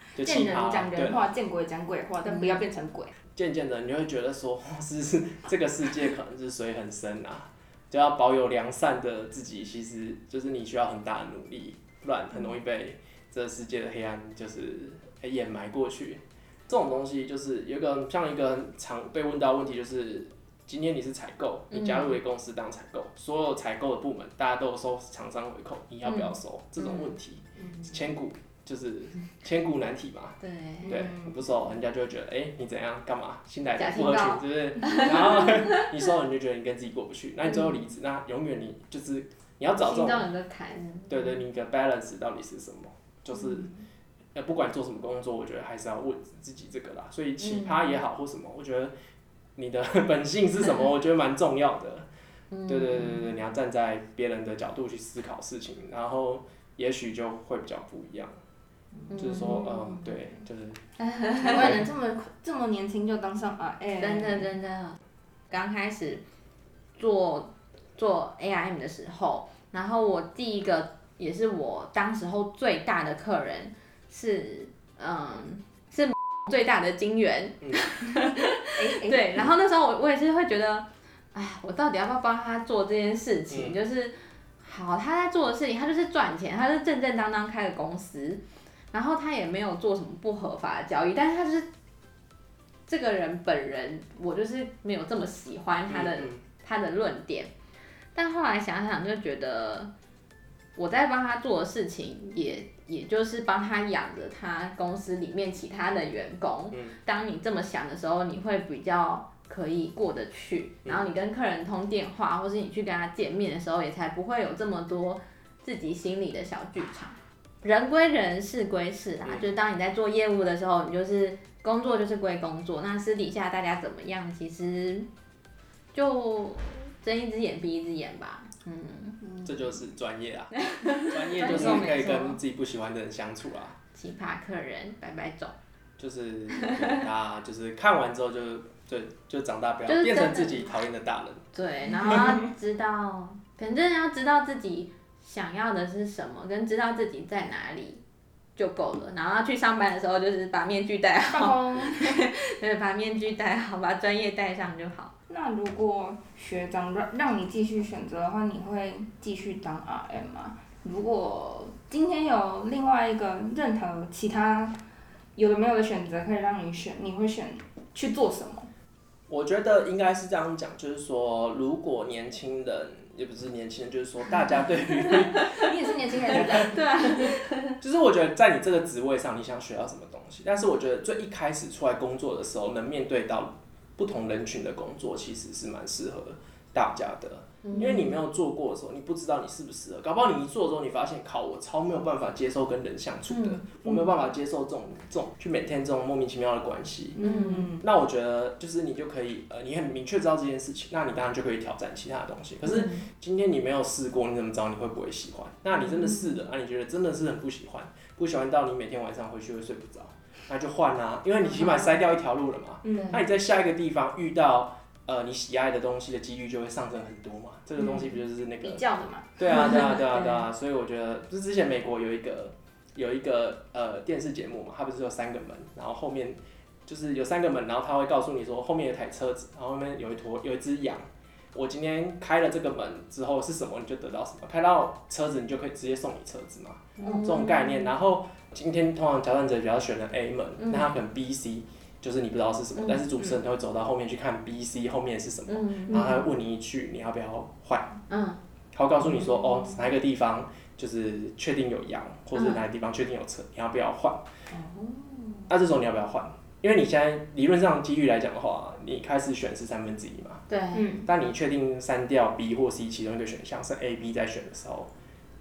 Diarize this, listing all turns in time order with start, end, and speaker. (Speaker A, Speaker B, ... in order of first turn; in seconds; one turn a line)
Speaker A: 0.1-1.2
Speaker B: 0.1-3.1
Speaker C: 2.3-2.6
Speaker A: 3.4-40.3
Speaker C: 21.7-22.1
Speaker C: 26.0-27.1
Speaker B: 27.6-28.0
Speaker C: 30.4-30.9
Speaker B: 30.8-31.4
Speaker C: 33.8-35.9
Speaker C: 39.8-41.4
Speaker A: 41.1-43.7
Speaker A: 44.3-48.9
Speaker C: 47.4-47.9
Speaker A: 49.5-52.1
Speaker C: 52.5-53.3
Speaker A: 52.7-58.3
Speaker C: 59.1-60.1
Speaker A: 59.1-60.8
Speaker C: 61.0-61.7
Speaker B: 61.4-64.5
Speaker A: 61.5-61.9
Speaker C: 64.0-65.0
Speaker C: 65.5-66.2
Speaker C: 67.0-91.7
Speaker B: 78.6-79.5
Speaker A: 83.5-83.8
Speaker C: 92.9-97.5
Speaker A: 95.9-96.4
Speaker C: 98.1-99.9
Speaker C: 100.8-125.1
Speaker A: 119.2-119.5
Speaker C: 125.9-129.2
Speaker B: 129.2-129.5
Speaker A: 129.4-133.8
Speaker C: 130.7-132.4
Speaker B: 131.4-131.9
Speaker C: 133.9-135.5
Speaker A: 136.0-141.4
Speaker C: 139.9-140.7
Speaker C: 141.5-148.0
Speaker A: 142.0-142.3
Speaker C: 148.6-155.1
Speaker B: 151.3-152.2
Speaker B: 155.3-164.8
Speaker B: 165.3-168.7
Speaker A: 169.3-175.6
Speaker B: 175.1-177.3
Speaker C: 175.2-175.6
Speaker A: 176.3-176.7
Speaker C: 176.3-177.8
Speaker A: 177.8-197.2
Speaker C: 187.6-188.2
Speaker C: 193.3-193.6
Speaker B: 193.8-194.1
Speaker B: 197.2-197.8
Speaker C: 197.2-197.7
Speaker A: 197.8-218.8
Speaker B: 205.8-206.4
Speaker C: 211.5-211.9
Speaker B: 212.8-213.2
Speaker B: 217.8-218.1
Speaker B: 218.6-220.0
Speaker A: 219.4-248.0
Speaker C: 219.5-220.4
Speaker C: 237.0-237.9
Speaker C: 240.6-240.9
Speaker C: 242.7-243.0
Speaker C: 245.5-246.0
Speaker B: 245.9-246.2
Speaker C: 248.1-248.4
Speaker A: 248.7-254.2
Speaker B: 249.1-249.9
Speaker C: 252.3-252.6
Speaker B: 254.5-255.5
Speaker A: 255.5-260.4
Speaker C: 260.5-260.9
Speaker B: 260.7-261.1
Speaker A: 261.1-264.9